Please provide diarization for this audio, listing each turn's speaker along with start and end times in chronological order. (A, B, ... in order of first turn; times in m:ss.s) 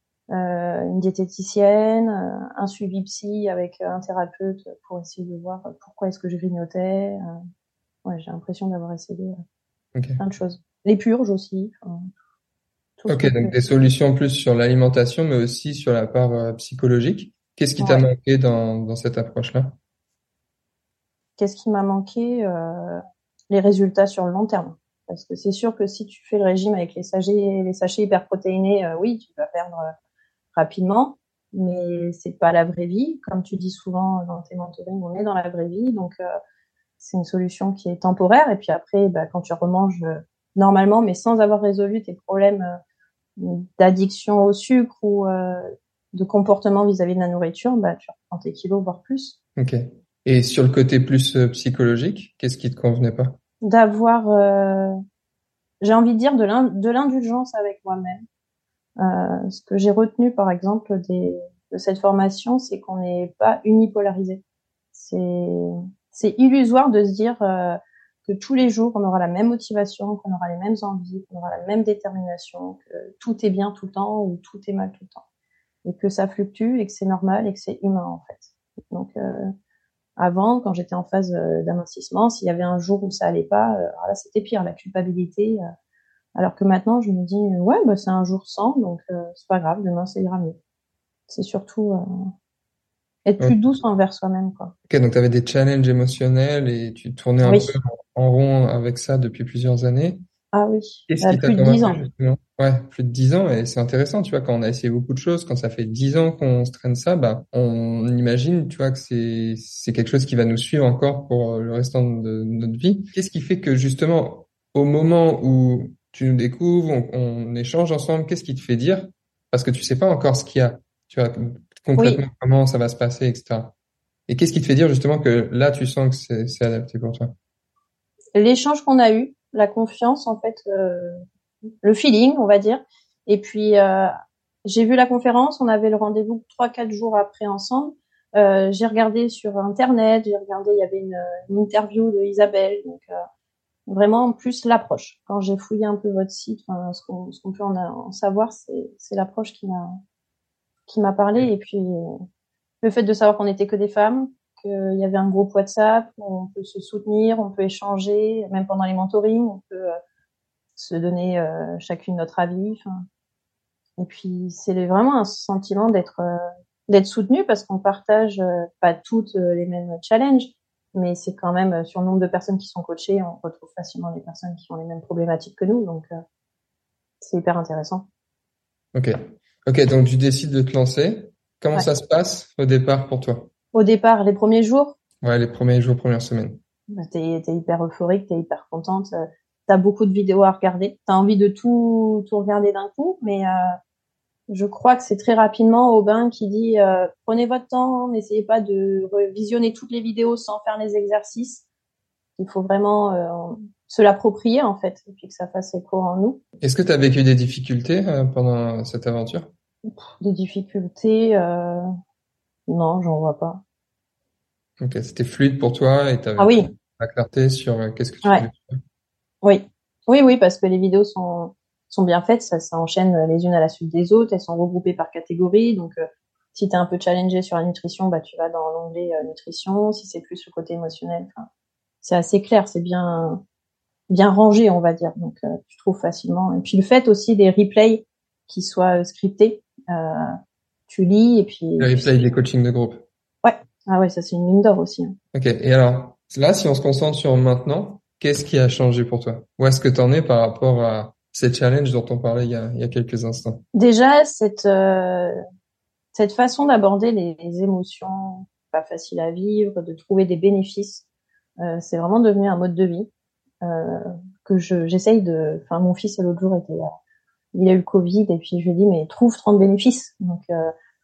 0:00.3-0:07.2 A
0:08.0-0:09.4 A
0:10.0-0:10.2 B
0:10.2-0:12.0 A
0:13.0-0:13.6 A
0:13.1-0:19.8 B
0:17.8-0:18.1 A
0:21.4-0:29.9 A
0:30.5-0:36.2 A
0:37.0-0:42.7 A
0:43.4-0:49.4 A
0:49.6-0:53.4 B
0:53.6-0:54.9 A
0:55.8-0:58.2 A
0:59.0-1:04.4 A
1:04.9-1:15.2 A
1:15.8-1:19.5 A
1:20.2-1:25.6 A
1:26.4-1:30.6 A
1:31.3-1:32.0 A
1:33.2-1:34.7 A
1:34.9-1:40.2 B
1:37.4-1:37.7 A
1:40.5-1:42.0 A
1:41.1-2:03.8 B
2:04.3-2:07.3 B
2:08.4-2:11.2 A
2:11.8-2:14.1 A
2:14.6-2:23.2 A
2:23.9-2:29.9 A
2:30.9-2:32.1 A
2:32.8-2:39.9 A
2:40.8-2:42.9 A
2:44.0-2:56.2 A
2:57.2-2:58.1 A
2:58.9-3:03.5 B
3:03.7-3:05.0 A
3:05.2-3:06.6 B
3:06.9-3:13.8 A
3:14.5-3:21.6 A
3:22.4-3:26.4 A
3:26.6-3:29.5 B
3:29.9-3:31.9 A
3:32.7-3:33.6 A
3:34.8-3:38.8 B
3:36.4-3:36.7 A
3:39.4-3:46.0 A
3:46.5-3:51.5 A
3:52.0-3:53.4 A
3:54.1-4:00.3 A
4:00.9-4:02.3 A
4:01.8-4:03.0 B
4:03.4-4:05.1 A
4:05.3-4:13.6 B
4:13.7-4:15.4 A
4:16.1-4:21.1 A
4:21.6-4:23.1 A
4:23.6-4:26.9 A
4:27.5-4:30.7 A